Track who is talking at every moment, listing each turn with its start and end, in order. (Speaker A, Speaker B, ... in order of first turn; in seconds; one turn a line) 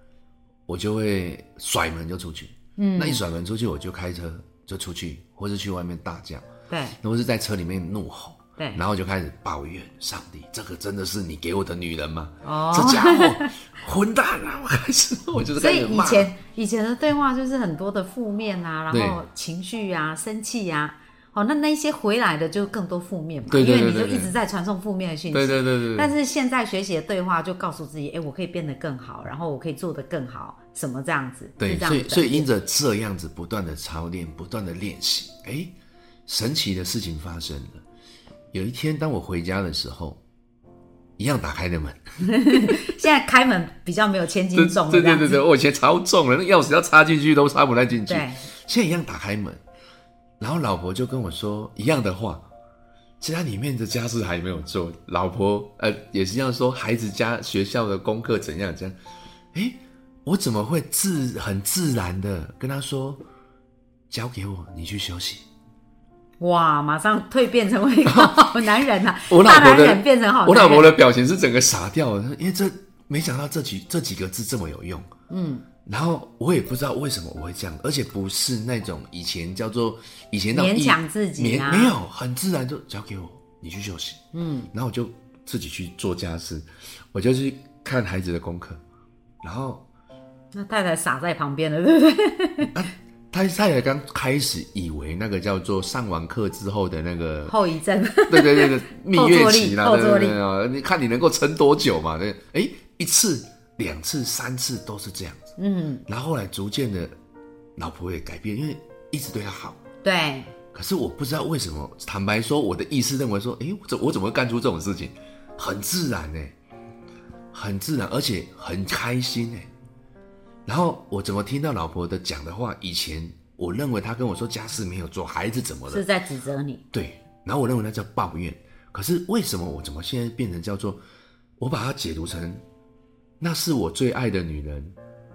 Speaker A: 0.7-6.4
Speaker B: 2.8-3.2
Speaker B: 6.7-7.0
Speaker A: 7.0-16.3
Speaker B: 12.4-13.5
Speaker B: 15.6-32.5
Speaker A: 18.9-19.2
Speaker A: 23.5-24.3
Speaker A: 25.3-26.1
Speaker A: 31.6-35.7
Speaker A: 36.3-37.8
Speaker A: 38.5-40.2
Speaker A: 41.2-42.0
Speaker B: 42.2-45.4
Speaker A: 44.5-49.6
Speaker B: 48.1-48.4
Speaker A: 50.4-52.4
Speaker A: 53.2-59.0
Speaker A: 59.5-63.2
Speaker A: 64.1-65.4
Speaker B: 66.4-70.9
Speaker A: 68.0-68.5
Speaker A: 69.3-75.1
Speaker B: 75.3-75.7
Speaker A: 75.8-84.2
Speaker B: 80.5-82.0
Speaker B: 84.3-84.7
Speaker A: 84.7-88.8
Speaker A: 89.4-89.8
Speaker B: 90.5-92.7
Speaker A: 92.7-97.5
Speaker B: 97.5-100.4
Speaker A: 98.3-105.5
Speaker B: 105.6-106.0
Speaker A: 106.1-107.1
Speaker A: 107.8-109.8
Speaker B: 110.0-110.5
Speaker A: 110.7-116.5
Speaker A: 117.5-119.7
Speaker A: 120.7-126.0
Speaker B: 125.9-126.8
Speaker A: 126.9-131.0
Speaker A: 131.6-132.6
Speaker A: 133.4-134.9